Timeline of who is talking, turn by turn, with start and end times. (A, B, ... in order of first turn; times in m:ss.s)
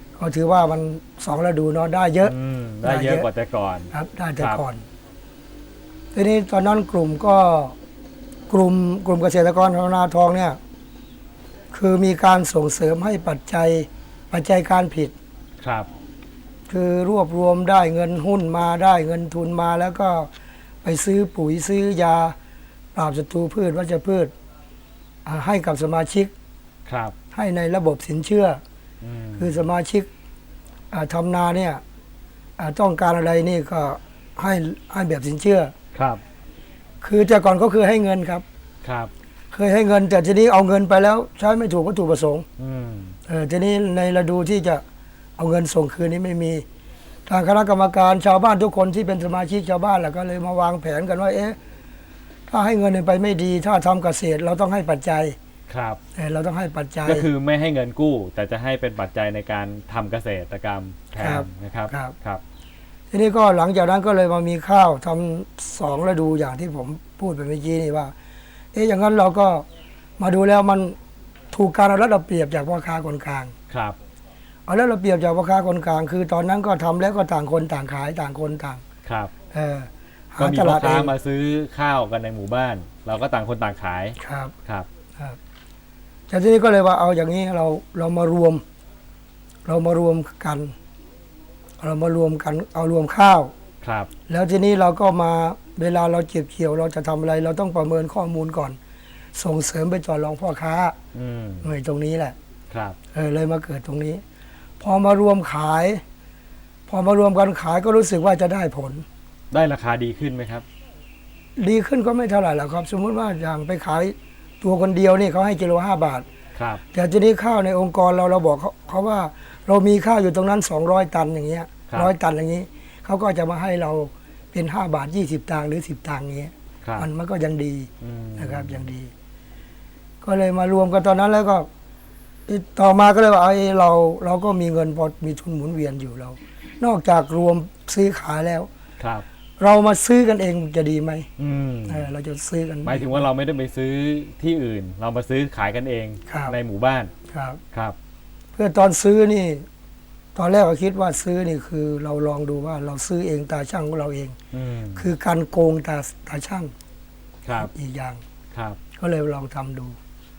0:00.2-0:03.3 A
0:02.2-0:04.6 B
0:03.9-0:04.8 A
0:06.1-0:07.8 A
0:08.5-0:10.6 A
0:11.7-0:15.2 A
0:15.6-0:15.9 B
0:16.7-0:20.3 A
0:20.8-0:22.4 A
0:22.9-0:24.3 A
0:25.2-0:26.3 A
0:26.9-0:27.1 B
0:27.3-0:28.6 A
0:29.0-0:29.6 B
0:29.4-0:30.1 A
0:30.9-0:31.8 A
0:32.6-0:35.7 A
0:35.9-0:36.2 B
0:37.0-0:38.4 A
0:38.8-0:39.1 B
0:39.5-0:42.4 A
0:42.6-0:43.2 B
0:43.3-0:44.8 A
0:45.4-0:46.6 A
0:47.3-0:51.6 A
0:52.5-0:55.4 A
0:55.7-0:56.0 B
0:56.1-0:57.3 A
0:57.0-1:02.4 B
1:01.2-1:02.1 A
1:03.1-1:08.1 A
1:08.7-1:09.6 A
1:10.2-1:11.0 A
1:11.5-1:13.5 A
1:13.7-1:14.0 B
1:14.7-1:18.8 A
1:19.0-1:19.3 B
1:19.5-1:21.1 A
1:20.4-1:24.9 B
1:24.2-1:24.5 A
1:26.3-1:28.6 A
1:29.6-1:30.7 A
1:31.8-1:33.5 A
1:33.8-1:34.1 B
1:34.3-1:38.8 A
1:39.3-1:41.0 A
1:41.1-1:41.7 B
1:41.6-1:42.4 A
1:42.7-1:43.0 B
1:43.1-1:44.2 A
1:44.8-1:46.0 A
1:46.9-1:49.0 A
1:49.5-1:50.6 B
1:51.6-1:56.3 A
1:56.6-1:56.8 B
1:56.9-2:09.1 A
2:06.8-2:07.1 B
2:08.0-2:08.9 B
2:10.2-2:11.7 A
2:12.5-2:18.7 A
2:19.0-2:19.2 B
2:19.6-2:21.3 A
2:21.4-2:22.1 B
2:21.9-2:23.2 A
2:22.8-2:27.1 B
2:26.3-2:26.5 A
2:27.3-2:27.6 A
2:28.6-2:29.6 A
2:30.3-2:34.4 A
2:34.5-2:35.1 B
2:35.0-2:36.7 A
2:37.4-2:37.7 B
2:37.6-2:38.2 A
2:38.5-2:38.8 B
2:39.0-2:40.0 A